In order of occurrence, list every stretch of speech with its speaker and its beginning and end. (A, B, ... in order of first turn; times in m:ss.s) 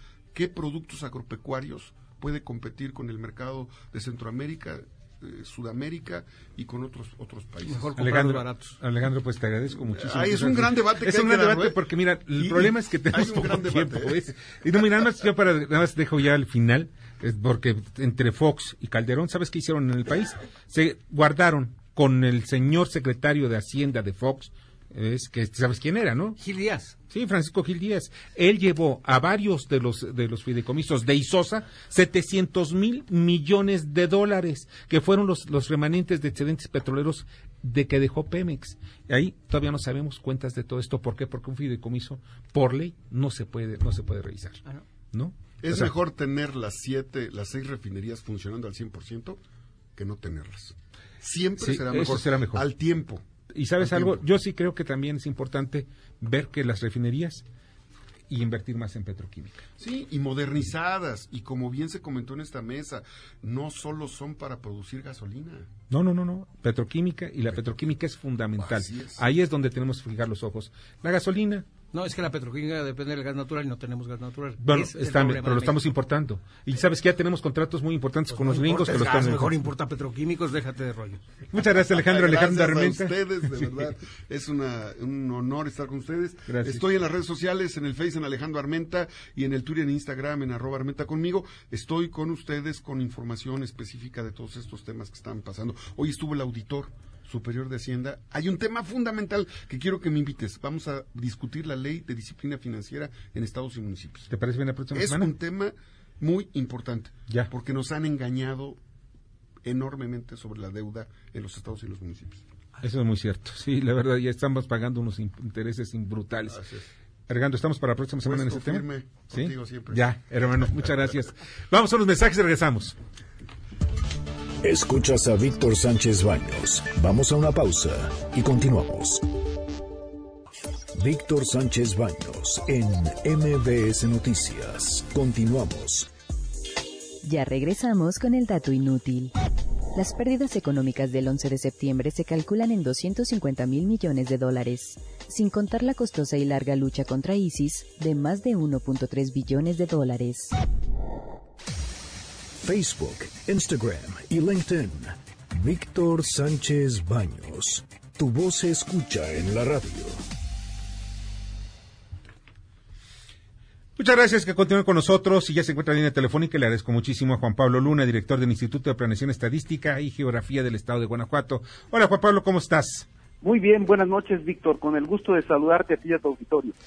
0:00.3-0:07.9 A
0:07.6-0:08.8 B
0:08.0-0:26.4 C
0:09.7-0:14.3 A
0:26.4-0:27.0 B
0:27.1-0:45.9 C
0:45.6-0:49.4 A
0:50.0-0:53.3 A
0:51.6-0:52.7 C
0:53.5-0:57.4 C
0:53.8-0:54.2 A
0:58.3-0:59.6 C
0:59.8-1:05.7 A
1:05.9-1:11.7 C
1:08.6-1:09.2 A
1:11.9-1:15.8 B
1:14.6-1:19.6 C
1:18.3-1:21.3 B
1:21.5-1:23.9 C
1:21.9-1:44.3 A
1:26.5-1:26.8 C
1:44.3-1:45.3 C
1:44.9-1:48.8 A
1:49.6-1:52.4 A
1:52.8-1:56.6 C
1:56.5-1:56.9 A
1:57.3-2:03.0 C
1:58.2-2:00.1 A
2:04.6-2:09.3 D
2:10.9-2:16.1 D
2:17.2-2:19.3 E
2:19.9-2:30.5 E
2:32.6-2:40.2 D
2:44.0-2:53.1 C
2:53.4-2:56.7 F